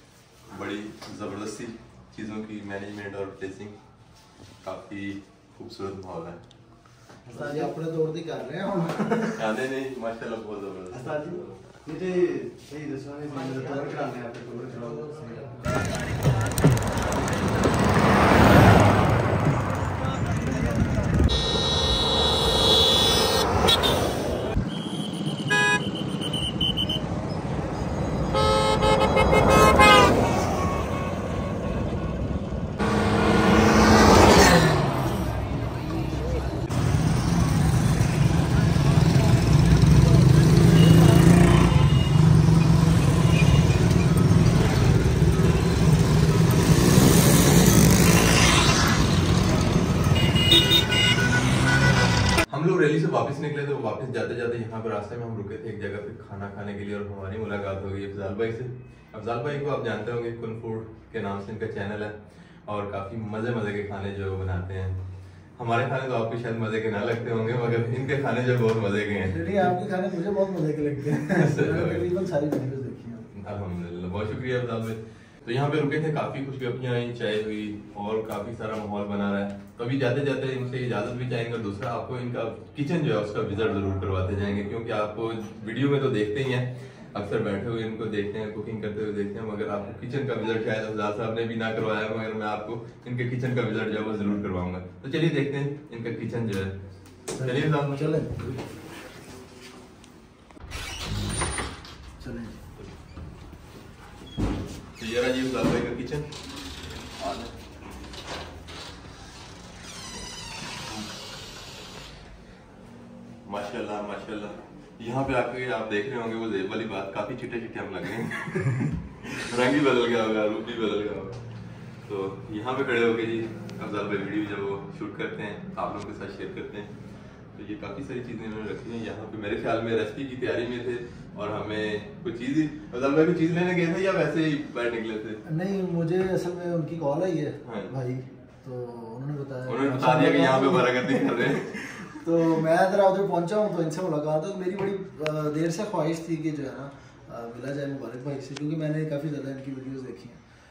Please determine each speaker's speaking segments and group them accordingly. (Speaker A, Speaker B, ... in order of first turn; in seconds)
Speaker A: 0.5-3.8, 4.6-6.4, 9.4-11.5, 52.5-65.0, 65.6-69.7, 71.2-72.1, 73.3-96.8, 97.4-98.6, 105.0-106.3, 107.2-107.5, 113.5-121.4, 122.1-126.9, 127.5-135.4, 137.6-137.9, 139.7-142.3
Speaker B: 7.3-7.7, 10.9-15.7
Speaker C: 7.3-9.5, 13.5-13.8, 69.3-73.3, 97.3-98.3, 102.2-102.6, 135.5-150.4